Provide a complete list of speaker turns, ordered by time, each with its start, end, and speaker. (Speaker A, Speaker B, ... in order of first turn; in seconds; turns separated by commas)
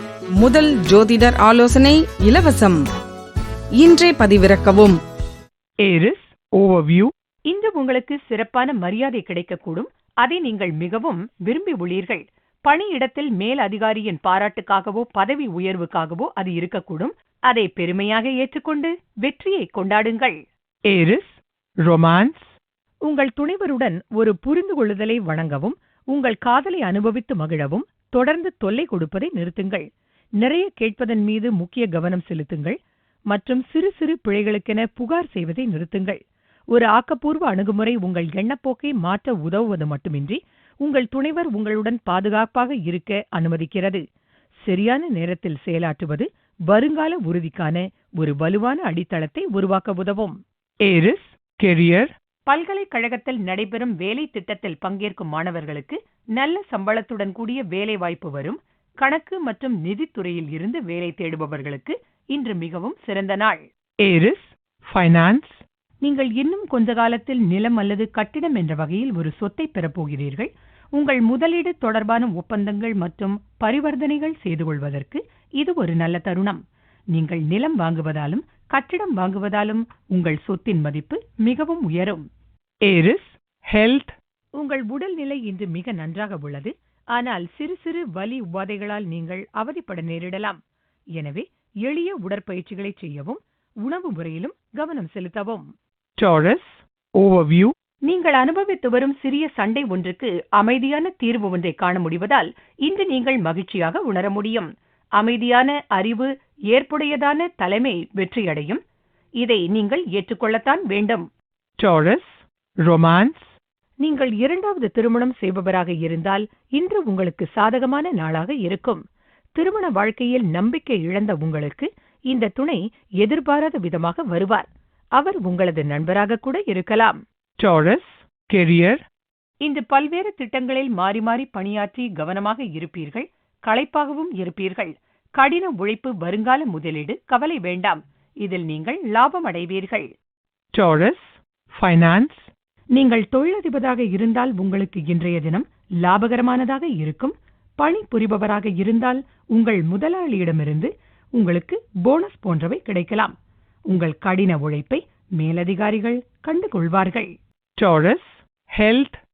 Speaker A: 0.3-2.8, Speaker A: 3.8-5.0, Speaker B: 5.8-7.1, Speaker C: 7.5-20.4, Speaker B: 20.9-22.5, Speaker C: 23.1-29.9, Speaker C: 30.4-32.8, Speaker C: 33.3-36.2, Speaker C: 36.7-44.0, Speaker C: 44.6-50.4, Speaker B: 50.9-52.1, Speaker C: 52.5-63.6, Speaker B: 64.0-65.6, Speaker C: 66.0-76.6, Speaker C: 77.1-82.2, Speaker B: 82.9-84.2, Speaker C: 84.6-90.6, Speaker C: 91.2-95.7, Speaker B: 96.2-97.7, Speaker C: 98.1-108.8, Speaker C: 109.4-111.3, Speaker B: 111.8-113.5, Speaker C: 114.0-119.0, Speaker C: 119.6-127.2, Speaker B: 127.6-129.0, Speaker C: 129.6-140.1, Speaker B: 140.8-142.5, Speaker C: 142.9-153.3, Speaker C: 153.9-157.3, Speaker B: 157.8-159.2